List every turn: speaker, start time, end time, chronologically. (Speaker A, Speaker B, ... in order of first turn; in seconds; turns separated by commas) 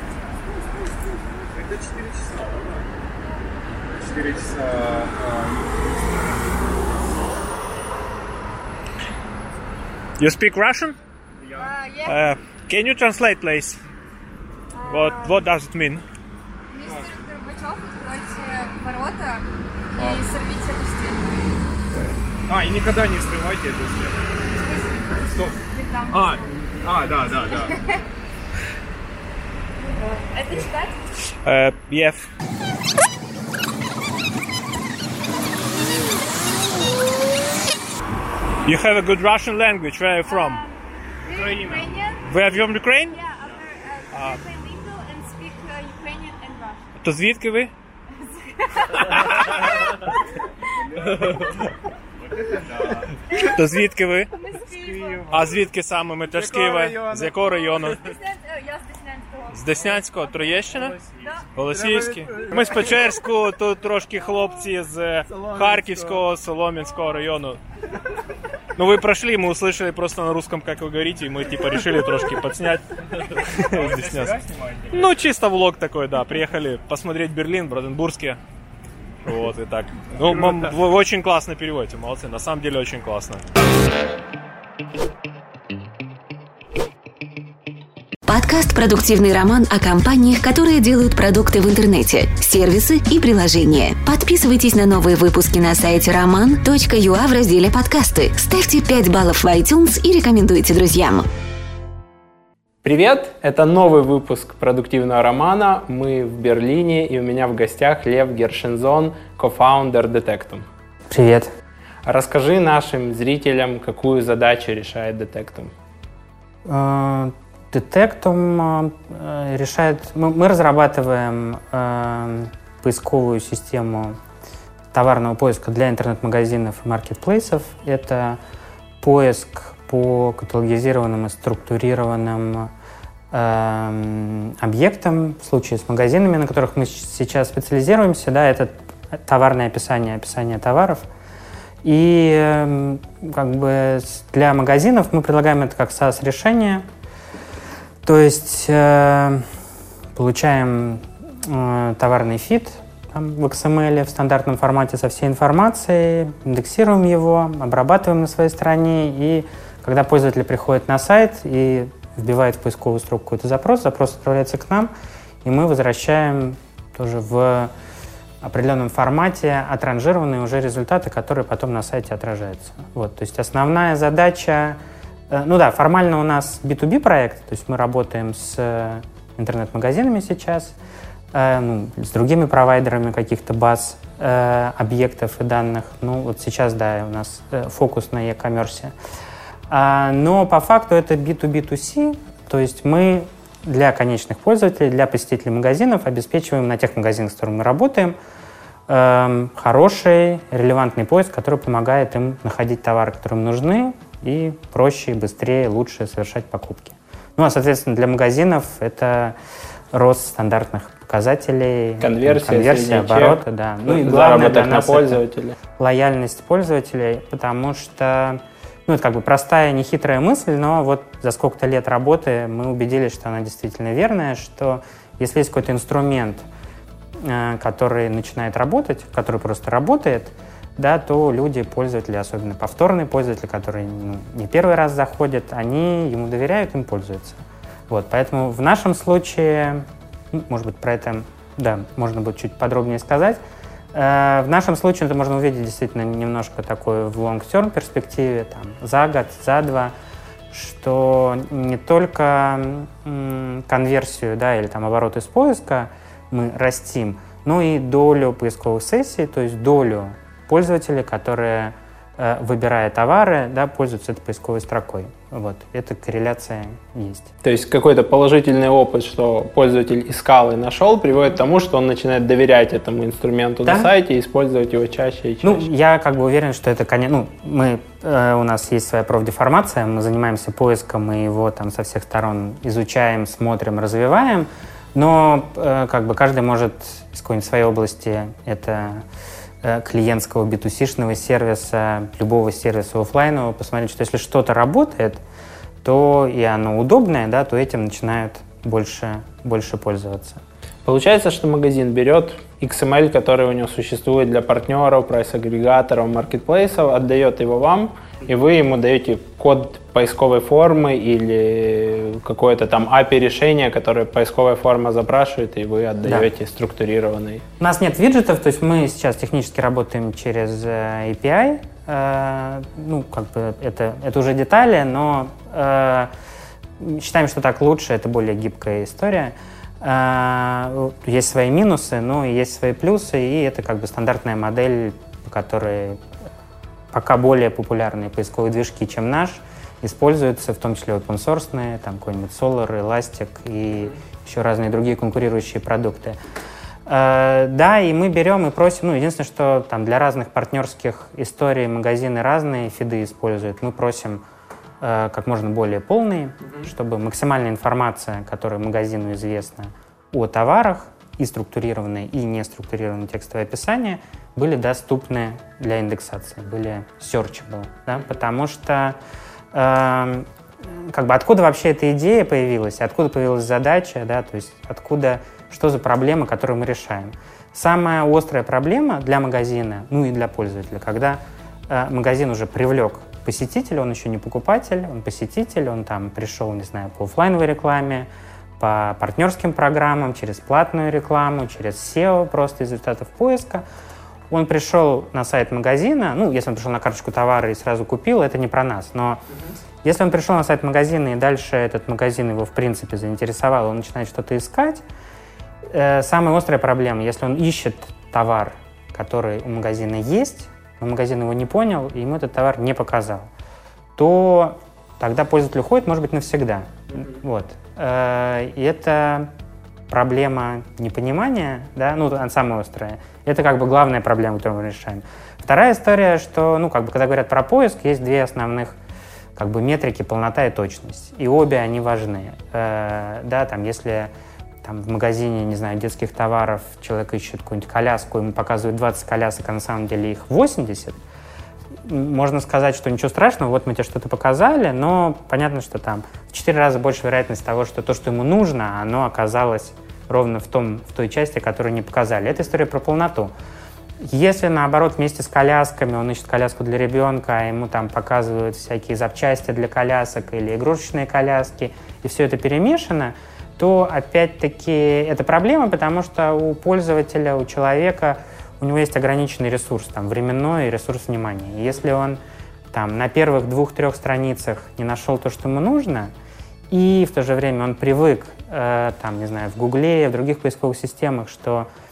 Speaker A: 1.5-2.8, Speaker A: 4.1-5.4, Speaker B: 10.2-11.0, Speaker A: 11.4-11.7, Speaker C: 11.5-12.3, Speaker B: 12.1-13.8, Speaker C: 14.7-15.5, Speaker B: 14.8-16.0, Speaker C: 16.7-21.5, Speaker A: 20.0-20.2, Speaker A: 22.5-24.1, Speaker C: 24.5-26.6, Speaker A: 26.1-27.7, Speaker C: 27.2-28.0, Speaker C: 30.1-31.0, Speaker B: 31.4-32.3, Speaker B: 38.6-40.6, Speaker C: 40.2-46.9, Speaker B: 41.3-43.2, Speaker B: 44.1-44.4, Speaker B: 47.0-47.7, Speaker C: 48.1-50.0, Speaker B: 49.1-49.4, Speaker B: 53.4-54.3, Speaker C: 54.3-55.4, Speaker A: 54.8-55.2, Speaker B: 55.3-58.0, Speaker A: 56.4-57.7, Speaker C: 57.8-60.5, Speaker B: 59.5-61.0, Speaker C: 61.2-61.5, Speaker B: 61.5-67.6, Speaker A: 61.8-62.5, Speaker A: 65.3-66.2, Speaker B: 68.8-72.9, Speaker B: 73.4-74.4, Speaker A: 73.6-74.9, Speaker B: 74.9-78.4, Speaker B: 79.2-83.5, Speaker A: 80.3-80.6, Speaker D: 88.2-101.3, Speaker E: 102.8-110.7, Speaker F: 111.1-111.5, Speaker E: 112.0-115.7, Speaker F: 116.7-124.2, Speaker F: 124.9-128.4, Speaker F: 129.0-132.7, Speaker F: 133.3-141.0, Speaker F: 141.8-146.8, Speaker F: 148.0-149.5, Speaker F: 150.1-164.9, Speaker F: 165.4-167.7, Speaker F: 168.4-174.8, Speaker F: 175.3-180.7, Speaker F: 181.3-188.9, Speaker F: 189.7-198.2, Speaker F: 198.9-209.3, Speaker F: 209.9-215.2, Speaker E: 212.0-215.6, Speaker F: 215.8-226.4, Speaker F: 227.2-243.4, Speaker F: 243.9-249.9, Speaker F: 250.5-267.3, Speaker E: 267.4-275.6, Speaker F: 273.6-273.9, Speaker F: 275.4-289.0, Speaker F: 289.6-295.2, Speaker F: 295.8-300.4, Speaker E: 300.8-317.4, Speaker F: 317.6-326.1, Speaker F: 326.8-336.0, Speaker F: 336.9-346.2, Speaker F: 346.9-354.2, Speaker F: 354.8-369.0, Speaker F: 369.5-388.1, Speaker F: 388.6-393.6, Speaker F: 394.3-399.2, Speaker F: 399.8-404.8, Speaker F: 405.7-413.3, Speaker F: 413.9-419.3, Speaker F: 419.9-428.8, Speaker F: 429.4-434.1, Speaker F: 434.6-441.0, Speaker F: 441.8-453.3, Speaker F: 454.0-472.2, Speaker F: 472.7-476.1, Speaker F: 476.7-481.7